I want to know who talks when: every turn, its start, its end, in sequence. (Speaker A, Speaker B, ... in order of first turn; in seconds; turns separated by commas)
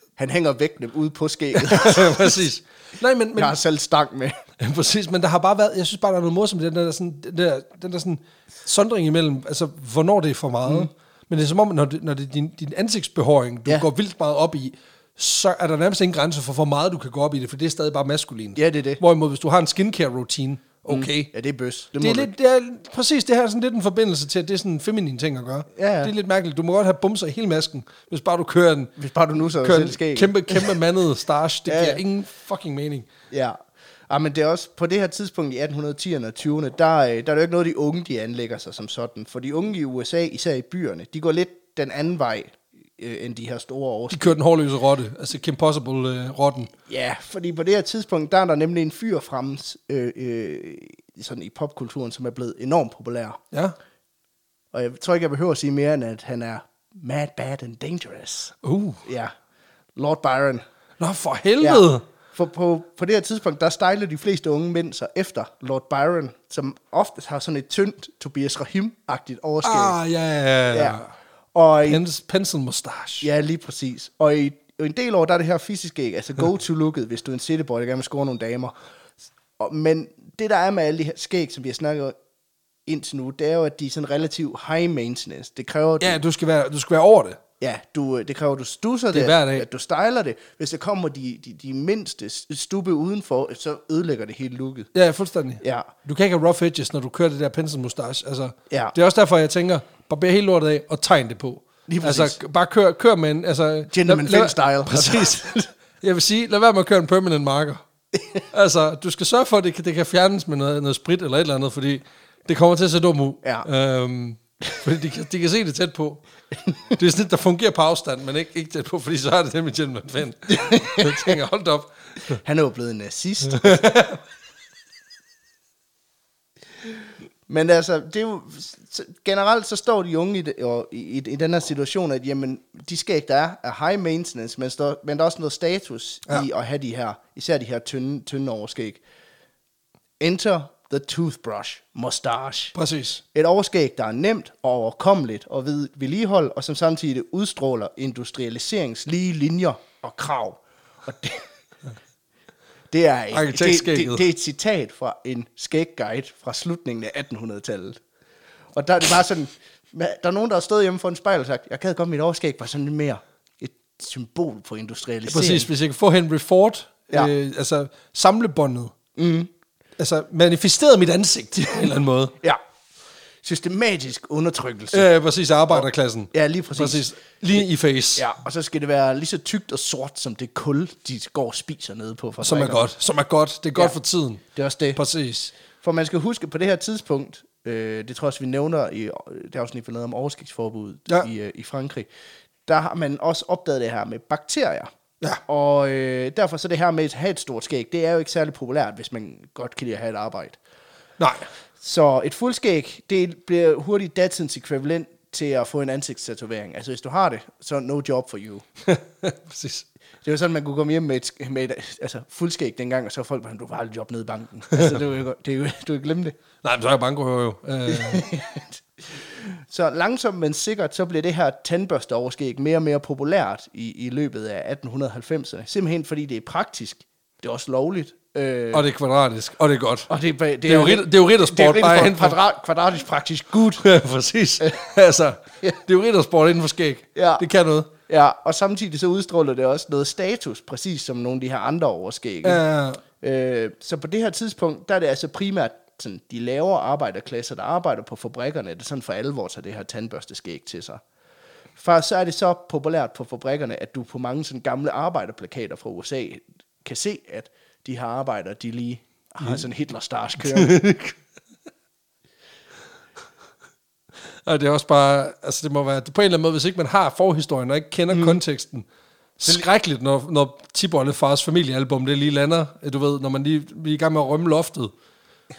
Speaker A: 0.2-2.4, Speaker B: 1.6-3.6, Speaker A: 3.4-4.4, Speaker B: 4.6-21.3, Speaker A: 18.6-19.0, Speaker A: 20.9-22.3, Speaker B: 22.0-28.9, Speaker A: 25.8-26.1, Speaker A: 29.0-30.8, Speaker B: 29.6-33.1, Speaker A: 31.7-32.0, Speaker A: 33.3-33.6, Speaker A: 34.1-44.4, Speaker B: 44.1-46.7, Speaker A: 46.9-53.4, Speaker A: 54.7-59.3, Speaker B: 58.6-59.0, Speaker A: 60.0-60.6, Speaker B: 61.0-62.0, Speaker A: 61.6-70.0, Speaker B: 69.6-71.1, Speaker A: 70.7-71.0, Speaker A: 71.5-72.0, Speaker B: 71.8-73.3, Speaker A: 73.2-78.7, Speaker A: 79.6-82.2, Speaker A: 82.9-86.2, Speaker B: 86.0-87.4, Speaker A: 87.6-94.9, Speaker B: 89.1-89.7, Speaker B: 94.9-105.4, Speaker A: 95.6-95.9, Speaker A: 98.7-99.0, Speaker A: 101.9-102.4, Speaker A: 103.9-105.7, Speaker B: 106.0-107.8, Speaker B: 108.5-116.2, Speaker B: 116.9-121.9, Speaker A: 120.5-121.4, Speaker A: 122.4-123.9, Speaker B: 123.5-124.2, Speaker A: 127.5-139.0, Speaker A: 140.2-142.7, Speaker B: 142.8-143.2, Speaker A: 143.3-151.5, Speaker A: 152.9-158.0, Speaker B: 153.3-154.2, Speaker A: 158.7-165.7, Speaker B: 165.3-169.0, Speaker A: 169.2-169.5, Speaker B: 170.0-172.3, Speaker A: 173.4-175.1, Speaker B: 174.9-178.3, Speaker A: 175.7-177.0, Speaker A: 178.2-182.9, Speaker B: 182.4-184.4, Speaker A: 184.6-185.0, Speaker B: 184.9-185.5, Speaker A: 185.7-192.1, Speaker A: 192.7-194.9, Speaker A: 195.5-200.6, Speaker B: 201.2-201.5, Speaker A: 201.8-208.7, Speaker B: 208.8-209.9, Speaker A: 210.2-216.4, Speaker B: 214.7-215.0, Speaker B: 216.6-218.3, Speaker A: 217.9-228.8, Speaker B: 228.7-230.1, Speaker A: 230.1-233.8, Speaker B: 230.7-232.4, Speaker B: 233.8-237.9, Speaker A: 237.2-237.4, Speaker A: 238.1-242.6, Speaker B: 242.4-243.0, Speaker A: 243.2-251.0, Speaker A: 251.8-260.8, Speaker B: 260.4-261.2, Speaker B: 264.4-268.9, Speaker A: 268.1-268.4, Speaker B: 269.4-274.9